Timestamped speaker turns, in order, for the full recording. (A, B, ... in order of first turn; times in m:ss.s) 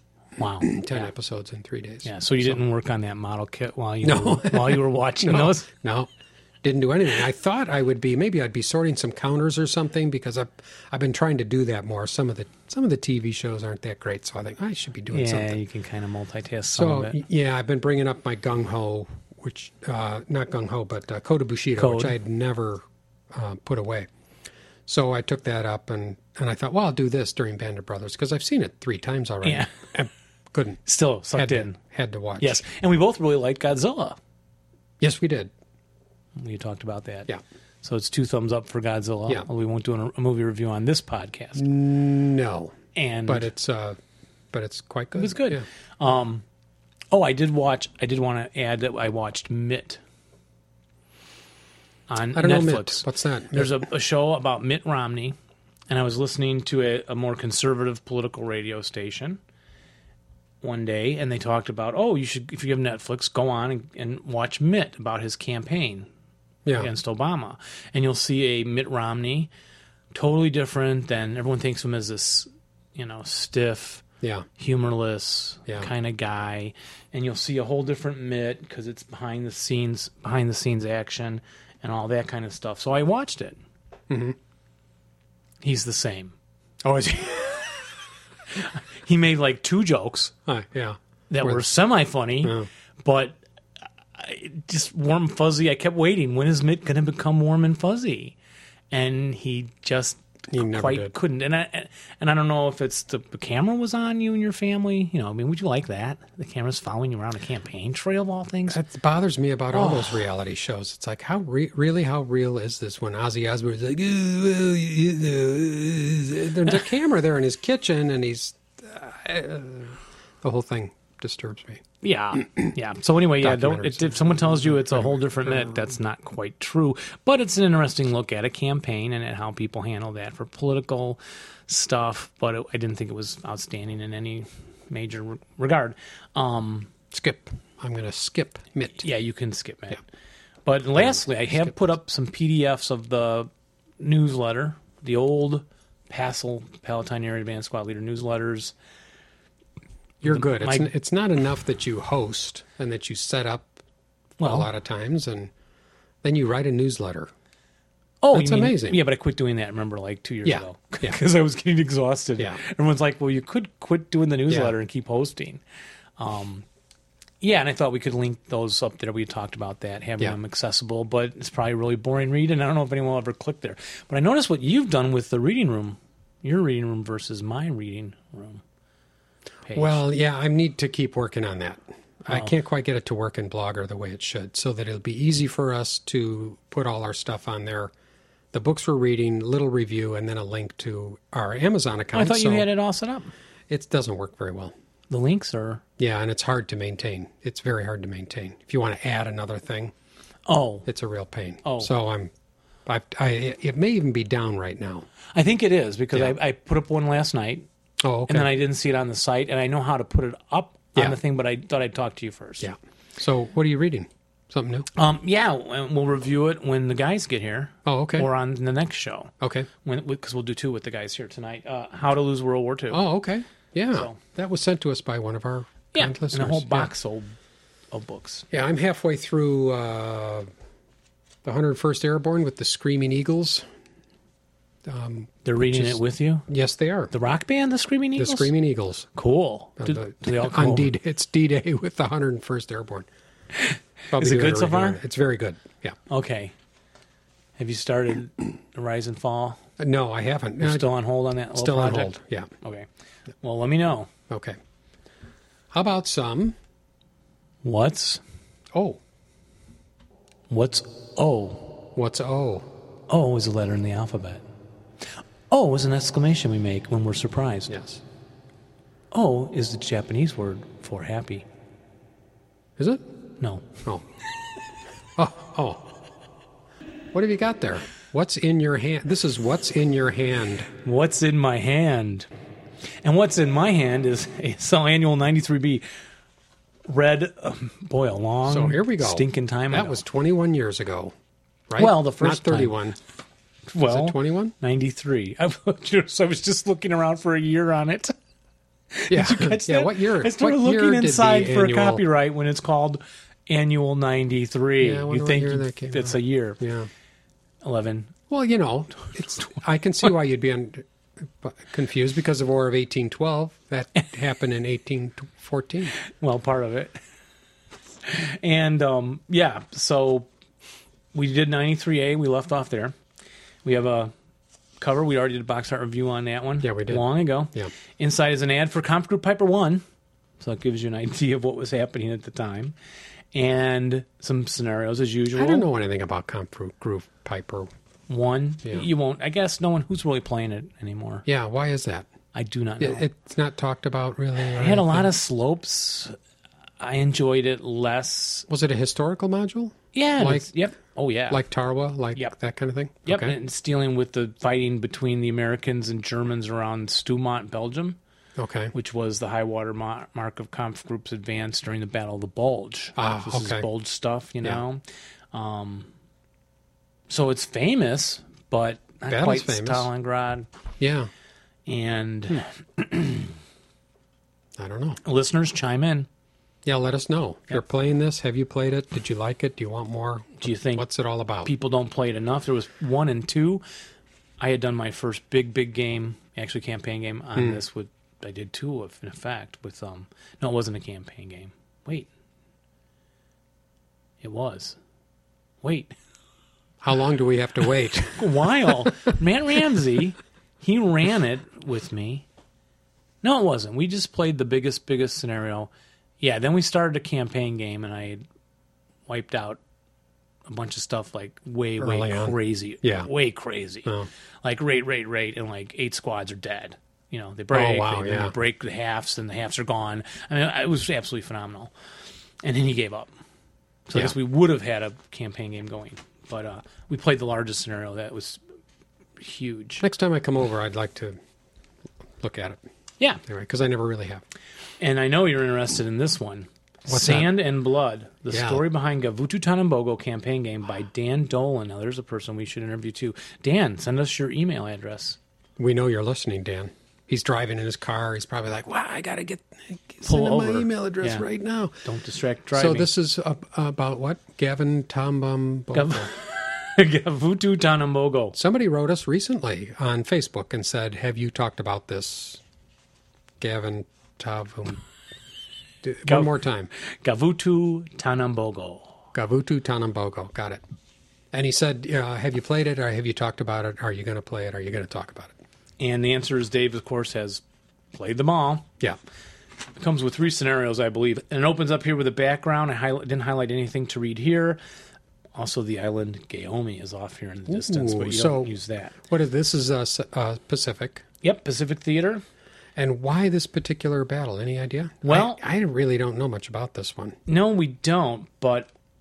0:00.4-0:01.1 A
0:00.6-0:02.6 B
0:02.0-0:05.6 A
0:04.0-0:06.1 B
0:06.6-0:15.6 B
0:15.1-0:17.2 A
0:16.7-0:24.1 B
0:21.8-0:22.1 A
0:24.8-0:30.8 B
0:29.4-0:29.7 A
0:30.8-0:31.8 A
0:31.3-0:32.6 B
0:32.4-0:34.2 A
0:35.0-0:35.5 B
0:36.4-0:37.3 A
0:37.8-0:41.6 A
0:41.6-0:44.0 B
0:42.9-0:43.5 A
0:44.5-0:45.6 B
0:45.2-0:46.4 A
0:47.1-0:50.0 A
0:52.1-0:55.4 A
0:52.3-0:53.8 B
0:55.9-0:59.4 A
1:00.6-1:06.1 A
1:06.6-1:06.9 B
1:06.8-1:09.5 A
1:10.1-1:14.0 A
1:14.6-1:23.6 A
1:24.1-1:24.4 B
1:25.6-1:26.3 A
1:26.8-1:27.2 B
1:27.2-1:27.8 A
1:28.5-1:30.3 A
1:30.4-1:31.7 B
1:31.3-1:33.4 A
1:32.4-1:32.7 B
1:34.2-1:38.3 A
1:38.9-1:48.8 A
1:40.5-1:41.1 B
1:48.7-2:01.8 B
1:49.7-1:50.2 A
2:02.0-2:16.9 A
2:03.4-2:05.9 B
2:17.1-2:19.1 B
2:19.0-2:20.0 A
2:20.6-2:28.7 A
2:21.0-2:21.7 B
2:30.2-2:33.8 B
2:30.2-2:30.9 A
2:34.4-2:34.7 A
2:34.4-2:35.5 B
2:36.2-2:37.3 B
2:38.2-2:45.6 A
2:38.3-2:39.0 B
2:40.4-2:41.2 B
2:44.5-2:44.7 B
2:46.2-2:46.6 A
2:47.4-2:58.6 A
2:59.6-3:00.0 A
2:59.7-3:07.9 B
3:08.5-3:12.7 B
3:12.1-3:13.3 A
3:13.7-3:14.7 B
3:15.1-3:15.8 A
3:16.0-3:19.9 B
3:20.4-3:20.9 A
3:20.8-3:22.3 B
3:21.6-3:21.9 A
3:22.8-3:25.1 B
3:25.3-3:27.7 A
3:28.0-3:28.5 B
3:28.3-3:32.7 A
3:32.6-3:34.9 B
3:34.9-3:39.3 A
3:37.8-3:38.3 B
3:39.4-3:39.7 B
3:39.8-3:43.0 A
3:42.9-3:46.9 B
3:43.9-3:44.2 A
3:45.9-3:47.3 A
3:47.9-3:48.4 A
3:48.5-3:50.5 B
3:51.4-3:53.6 B
3:54.8-3:57.1 B
3:55.4-3:56.4 A
3:57.1-3:58.5 A
3:58.2-3:59.1 B
3:59.1-4:00.9 A
3:59.8-4:03.1 B
4:03.5-4:05.0 A
4:04.1-4:06.0 B
4:06.1-4:06.5 A
4:07.6-4:09.6 A
4:09.8-4:10.9 B
4:10.6-4:12.9 A
4:11.5-4:12.5 B
4:13.4-4:14.1 A
4:14.3-4:14.6 B
4:15.7-4:16.6 B
4:17.6-4:18.2 A
4:18.7-4:19.0 B
4:20.5-4:21.6 A
4:21.9-4:22.7 B
4:23.1-4:24.4 A
4:25.5-4:27.7 A
4:27.7-4:28.0 B
4:29.1-4:31.4 A
4:32.8-4:33.0 B
4:33.4-4:33.7 A
4:35.2-4:35.8 B
4:37.1-4:40.7 B
4:40.8-4:42.3 A
4:43.0-4:45.8 A
4:46.9-4:50.0 A
4:48.4-4:51.1 B
4:51.7-4:53.0 B
4:51.8-4:52.7 A
4:53.7-4:58.1 A
4:53.9-4:54.5 B
4:58.9-5:06.6 A
4:59.1-5:02.0 B
5:04.8-5:06.9 B
5:07.6-5:08.1 A
5:08.3-5:10.8 B
5:09.1-5:09.6 A
5:11.4-5:15.9 B
5:16.0-5:17.0 A
5:18.0-5:20.3 A
5:21.1-5:22.9 A
5:23.6-5:24.1 A
5:24.8-5:29.8 A
5:26.6-5:27.7 B
5:30.4-5:32.7 A
5:33.3-5:35.7 A
5:35.3-5:37.7 B
5:38.1-5:41.2 A
5:41.2-5:42.1 B
5:42.3-5:43.0 A
5:42.8-5:45.1 B
5:44.4-5:46.2 A
5:46.8-5:48.5 A
5:48.5-5:50.5 B
5:49.9-5:51.4 A
5:51.3-5:53.3 B
5:53.0-5:58.0 A
5:58.4-5:58.7 B
5:58.7-6:05.9 A
6:03.0-6:03.7 B
6:07.1-6:10.5 A
6:09.1-6:09.9 B
6:10.8-6:11.1 B
6:11.6-6:13.3 A
6:14.6-6:15.0 B
6:15.0-6:16.1 A
6:16.6-6:21.5 B
6:20.4-6:20.8 A
6:21.4-6:23.6 A
6:24.4-6:32.1 A
6:27.4-6:27.6 B
6:34.2-6:34.8 A
6:35.6-6:35.9 A
6:36.8-6:39.0 B
6:38.2-6:42.2 A
6:43.2-6:48.2 A
6:49.1-6:49.6 A
6:50.5-6:53.9 A
6:51.8-6:53.1 B
6:54.4-7:01.7 A
6:57.5-6:58.3 B
7:02.4-7:03.1 A
7:03.9-7:08.4 A
7:09.2-7:09.8 A
7:09.8-7:11.2 B
7:12.2-7:12.6 B
7:13.2-7:14.2 B
7:14.8-7:25.2 A
7:16.9-7:17.3 B
7:18.3-7:18.6 B
7:25.6-7:31.8 B
7:30.0-7:31.2 A
7:31.8-7:32.9 A
7:32.5-7:36.1 B
7:35.7-7:38.4 A
7:38.3-7:42.4 B
7:43.4-7:44.8 B
7:45.8-7:46.7 B
7:46.0-7:46.3 A
7:47.0-7:49.0 A
7:49.1-7:50.6 B
7:51.3-7:55.3 B
7:55.8-7:57.4 A
7:57.9-7:58.6 A
7:59.8-8:04.6 A
8:05.3-8:09.0 A
8:07.5-8:11.0 B
8:11.2-8:12.2 A
8:12.8-8:17.2 B
8:15.0-8:15.4 A
8:17.3-8:18.7 A